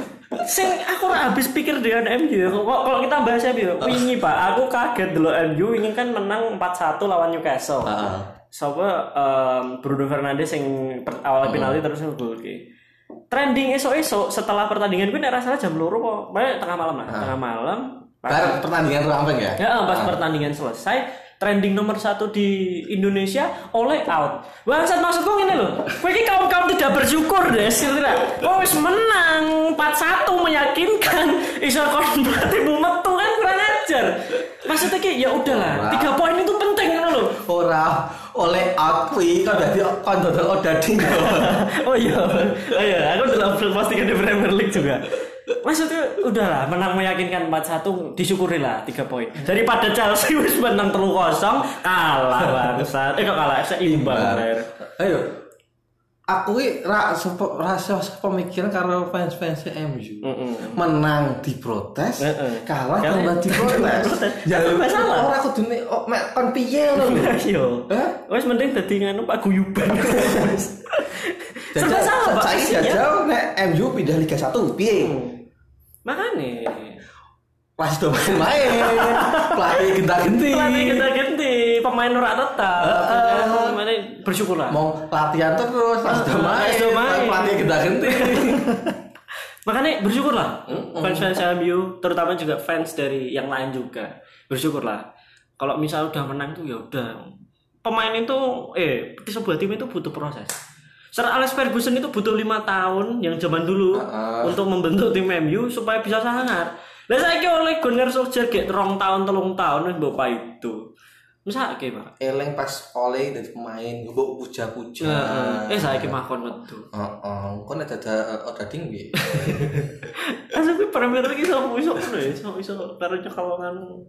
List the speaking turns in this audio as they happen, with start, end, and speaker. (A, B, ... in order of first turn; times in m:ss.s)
0:00.3-0:12.6 A
0:03.8-0:04.1 B
0:07.8-0:08.3 B
0:11.4-0:11.8 B
0:13.3-0:18.6 A
0:17.1-0:17.4 B
0:18.3-0:20.2 B
0:19.6-0:37.4 A
0:35.4-0:36.1 B
0:37.2-0:41.7 B
0:41.0-0:54.7 A
0:52.4-0:52.8 B
0:53.8-0:55.3 B
0:56.3-1:08.1 B
1:00.2-1:00.8 A
1:02.2-1:05.3 A
1:07.0-1:13.1 A
1:09.9-1:10.6 B
1:11.7-1:15.2 B
1:15.0-1:15.4 A
1:16.0-1:17.0 A
1:17.8-1:21.1 B
1:18.4-1:24.8 A
1:22.8-1:23.8 B
1:24.7-1:28.8 B
1:26.1-1:29.0 A
1:29.6-1:35.0 A
1:30.7-1:31.4 B
1:35.6-1:37.1 A
1:37.8-1:40.5 A
1:41.1-1:50.8 A
1:43.9-1:44.6 B
1:51.4-1:52.1 A
1:52.2-1:56.2 B
1:55.0-1:56.9 A
1:56.9-1:59.9 B
1:59.2-2:03.8 A